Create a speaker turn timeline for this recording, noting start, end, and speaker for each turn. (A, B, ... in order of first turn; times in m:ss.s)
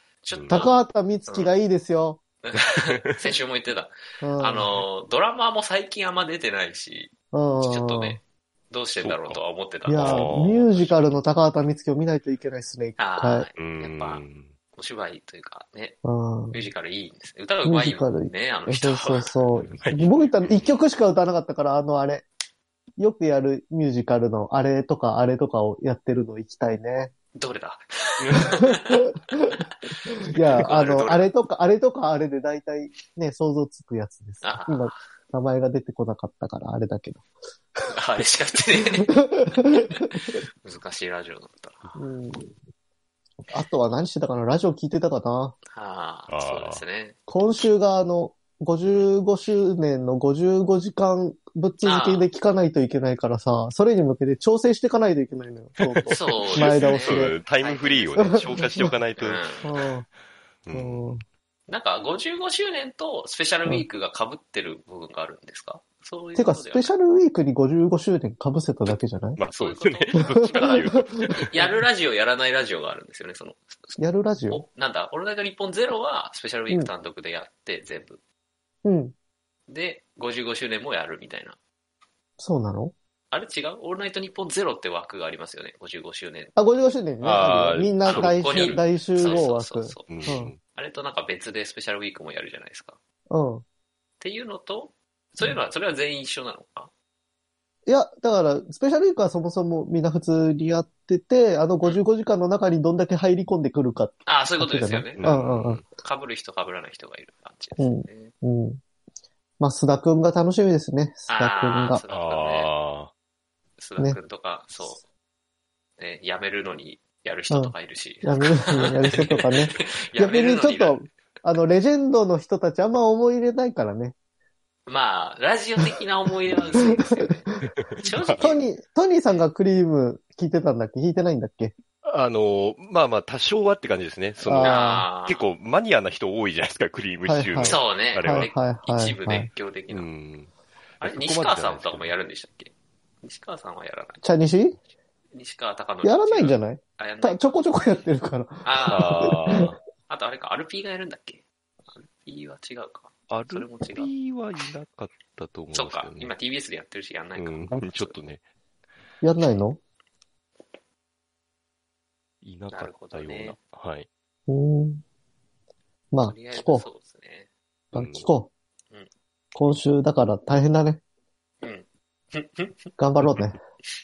0:00.2-0:01.5 A
0:00.3-0:00.7 B
0:00.5-0:02.2 C
0:02.4-0:10.4 A
0:02.6-0:02.9 B
0:04.2-0:04.8 C
0:07.3-0:08.2 C
0:09.0-0:09.4 B
0:09.8-0:13.5 C
0:09.9-0:11.0 B
0:13.0-0:16.0 A
0:13.6-0:14.5 B
0:16.0-0:16.6 C
0:16.5-0:19.3 A
0:17.6-0:22.2 C
0:19.6-0:20.7 B
0:23.0-0:27.1 C
0:27.3-0:29.0 A
0:30.1-0:31.3 A
0:30.2-0:37.2 C
0:34.4-0:35.0 A
0:37.8-0:39.2 A
0:39.0-0:40.4 C
0:39.9-0:41.9 A
0:42.0-0:42.5 C
0:43.5-0:45.6 C
0:45.7-0:47.2 A
0:46.3-0:46.8 B
0:47.3-0:57.4 C
0:51.8-0:52.3 A
0:55.8-0:59.4 B
0:56.0-0:58.7 A
0:58.2-0:58.9 C
0:59.2-0:59.7 A
0:59.6-1:00.0 C
1:00.6-1:01.1 B
1:00.7-1:01.2 C
1:01.7-1:06.9 A
1:06.3-1:09.4 C
1:09.4-1:11.7 B
1:09.5-1:18.2 A
1:10.2-1:11.5 C
1:14.0-1:14.6 C
1:18.8-1:19.1 C
1:19.7-1:21.6 A
1:22.4-1:22.9 C
1:23.3-1:26.6 A
1:26.6-1:30.5 C
1:27.2-1:28.8 B
1:28.0-1:33.0 A
1:30.1-1:30.6 B
1:33.3-1:33.6 C
1:34.2-1:36.9 A
1:37.9-1:45.8 C
1:44.2-1:45.3 A
1:45.2-1:45.8 B
1:45.9-1:48.3 A
1:47.8-1:48.8 C
1:49.6-1:52.0 C
1:51.3-1:52.7 A
1:52.1-1:53.1 B
1:53.8-1:55.0 A
1:56.0-2:01.0 A
1:57.5-2:04.1 C
2:04.9-2:08.6 A
2:06.7-2:07.5 C
2:07.6-2:08.5 B
2:08.4-2:11.7 C
2:12.0-2:18.5 B
2:14.4-2:15.1 C
2:14.6-2:15.4 A
2:17.2-2:19.5 C
2:17.6-2:20.1 A
2:19.9-2:22.1 B
2:21.0-2:24.2 A
2:24.2-2:24.8 C
2:25.3-2:27.9 A
2:26.0-2:29.7 C
2:28.6-2:34.1 A
2:28.8-2:29.8 B
2:33.3-2:36.3 B
2:35.7-2:38.2 A
2:37.4-2:38.4 B
2:39.2-2:39.8 C
2:42.4-2:44.1 B
2:42.7-2:43.6 A
2:44.5-2:45.0 C
2:46.1-2:46.8 C
2:46.2-2:47.5 A
2:47.9-2:48.3 B
2:47.9-2:48.5 C
2:49.5-2:51.0 C
2:51.6-2:52.9 A
2:53.0-2:53.6 C